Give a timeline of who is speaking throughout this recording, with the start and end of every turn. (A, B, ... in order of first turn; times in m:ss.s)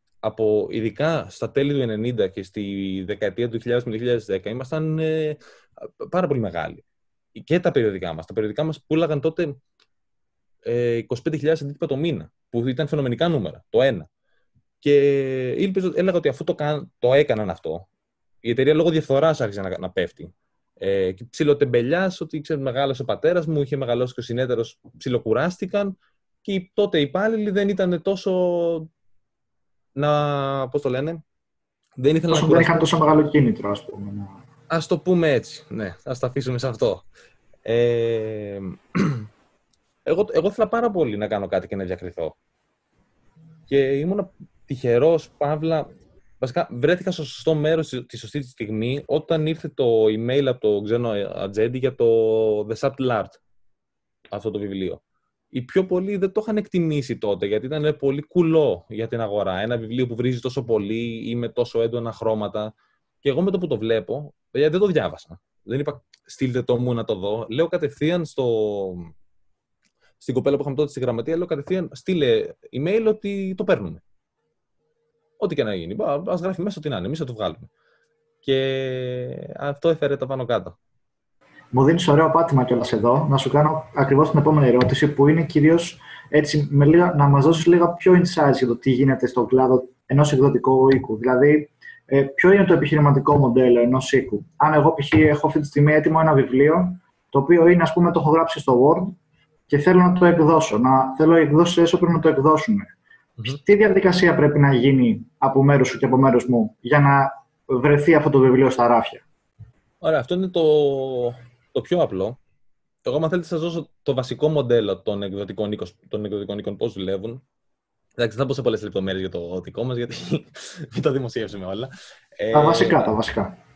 0:00.2-0:06.8 A
0:07.3-0:09.6 A
0:10.6-0:14.1 A
0:14.8-0:17.9 A
0:18.4-0:25.9 A
0:26.4-0:28.9 A
0:30.0-0:31.2 A
0:32.0-0:32.8 A
0:32.3-0:34.4 B
0:34.7-0:37.0 A
0:37.6-0:39.3 A
0:40.0-0:42.3 A
0:43.7-0:45.9 A
0:46.4-0:53.4 A
0:54.3-0:55.0 A
0:55.5-1:02.7 A
1:03.2-1:09.1 A
1:10.2-1:14.0 A
1:15.4-1:17.7 A
1:18.4-1:20.8 A
1:21.7-1:39.1 B
1:39.7-1:42.9 B
1:43.4-1:49.2 B
1:50.0-1:52.4 A
1:53.0-1:57.4 A
1:58.2-2:03.1 A
2:02.5-2:03.5 B